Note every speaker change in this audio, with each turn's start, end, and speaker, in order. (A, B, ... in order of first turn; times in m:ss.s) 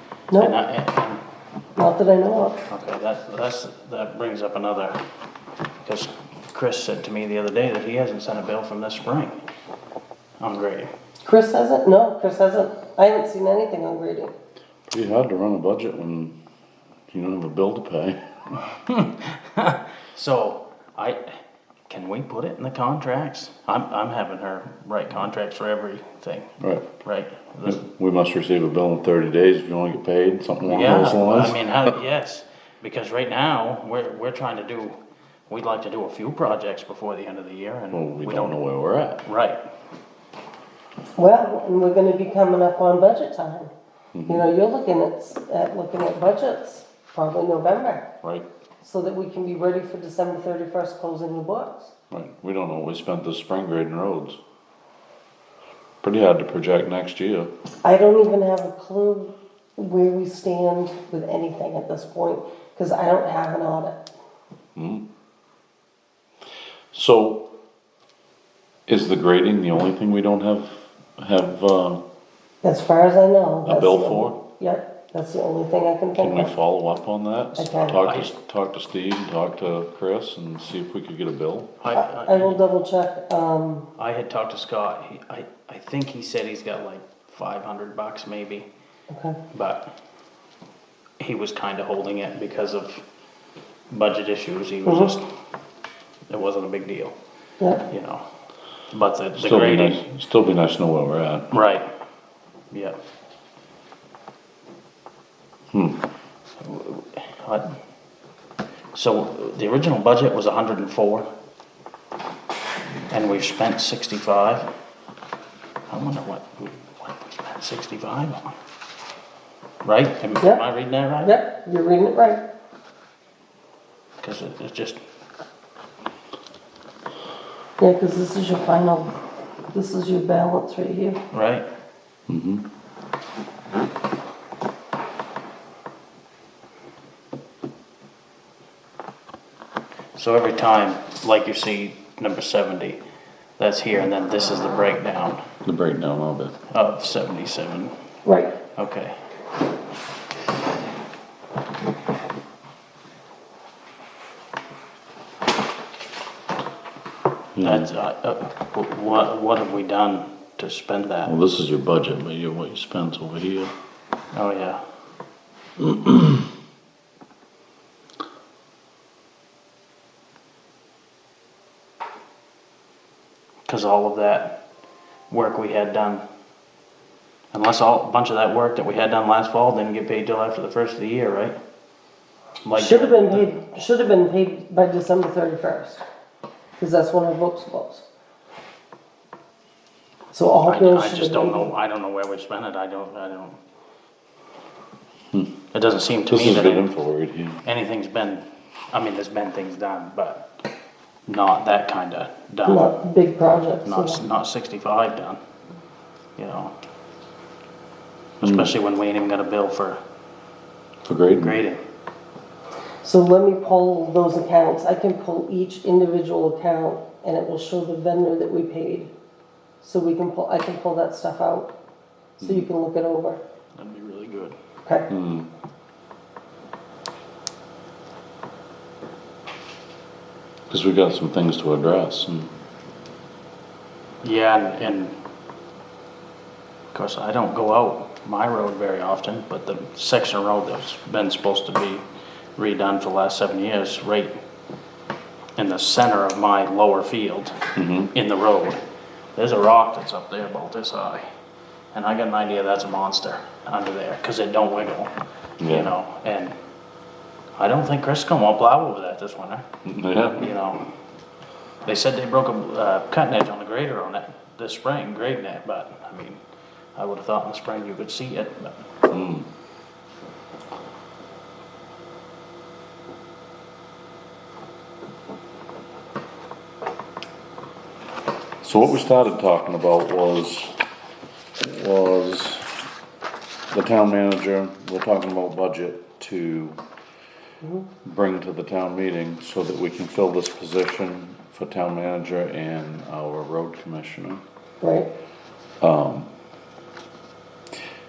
0:00.4-0:01.2 A
0:01.8-0:02.6 B
0:02.7-0:05.0 A
0:05.8-0:09.4 A
0:10.4-0:10.9 A
0:11.3-0:14.3 B
0:14.9-0:16.4 C
0:17.1-0:18.2 C
0:18.7-0:26.5 A
0:26.6-0:26.9 C
0:27.0-0:27.8 A
0:27.6-0:32.0 C
0:30.7-0:35.0 A
0:35.5-0:38.6 A
0:37.9-0:39.2 C
0:39.2-0:39.6 A
0:41.2-0:43.7 B
0:44.1-0:44.5 C
0:44.3-0:48.1 B
0:48.8-0:51.9 B
0:52.1-0:54.4 C
0:56.0-0:57.5 C
0:57.9-1:03.9 B
1:04.8-1:05.0 C
1:06.9-1:07.5 C
1:08.9-1:12.0 C
1:12.6-1:16.4 B
1:13.6-1:14.4 C
1:16.2-1:21.7 C
1:17.6-1:17.9 B
1:17.9-1:18.3 A
1:21.8-1:22.6 A
1:21.9-1:23.9 B
1:24.0-1:28.7 A
1:29.1-1:29.4 B
1:29.5-1:29.9 A
1:31.2-1:33.0 A
1:33.9-1:35.3 A
1:34.9-1:35.1 B
1:36.3-1:37.1 A
1:37.9-1:38.2 A
1:38.9-1:40.1 A
1:39.4-1:41.5 C
1:41.5-1:41.9 A
1:42.7-1:43.0 A
1:45.7-1:46.0 C
1:46.6-1:47.8 A
1:48.9-1:51.3 A
1:53.1-1:54.7 A
1:55.9-1:58.5 A
1:59.8-2:01.4 A
2:01.2-2:02.4 B
2:04.2-2:05.0 A
2:07.8-2:09.1 B
2:09.7-2:11.2 B
2:11.3-2:11.7 A
2:12.3-2:12.6 C
2:20.2-2:23.0 A
2:23.6-2:25.4 A
2:25.6-2:26.6 C
2:26.7-2:27.9 A
2:28.2-2:28.6 B
2:28.7-2:29.2 A
2:37.6-2:37.9 C
2:37.6-2:41.3 A
2:41.3-2:43.7 C
2:44.3-2:44.8 A
2:45.8-2:46.4 C
2:53.7-2:54.6 A
2:55.3-2:56.2 A
2:57.5-3:01.6 A
3:02.6-3:03.5 A
3:02.8-3:06.0 B
3:06.8-3:08.0 B
3:10.3-3:11.7 B
3:10.7-3:13.6 A
3:15.7-3:16.9 A
3:16.3-3:17.6 C
3:17.6-3:20.5 A
3:21.3-3:22.9 A
3:22.7-3:24.2 B
3:23.8-3:25.4 A
3:26.4-3:26.7 A
3:28.4-3:30.0 A
3:28.4-3:28.7 C
3:31.0-3:31.6 C
3:31.4-3:31.8 A
3:33.0-3:39.1 B
3:39.8-3:41.7 B
3:42.4-3:42.7 C
3:42.4-3:43.4 B
3:43.8-3:44.6 A
3:45.1-3:45.5 C
3:50.7-3:52.5 C
3:54.2-3:55.2 A
3:56.9-4:02.0 A
4:02.6-4:04.3 A
4:05.6-4:07.6 A
4:07.8-4:08.1 C
4:08.1-4:08.8 A
4:09.4-4:11.2 A
4:11.9-4:16.6 A
4:15.6-4:15.9 C
4:17.6-4:19.7 A
4:19.8-4:20.5 C
4:20.4-4:20.9 A
4:21.8-4:26.4 A
4:27.0-4:28.8 A
4:29.1-4:29.5 C
4:38.6-4:40.8 C
4:41.6-4:42.8 C
4:43.7-4:46.8 C
4:48.0-4:54.4 C
4:54.8-4:55.1 B
4:55.8-4:56.3 C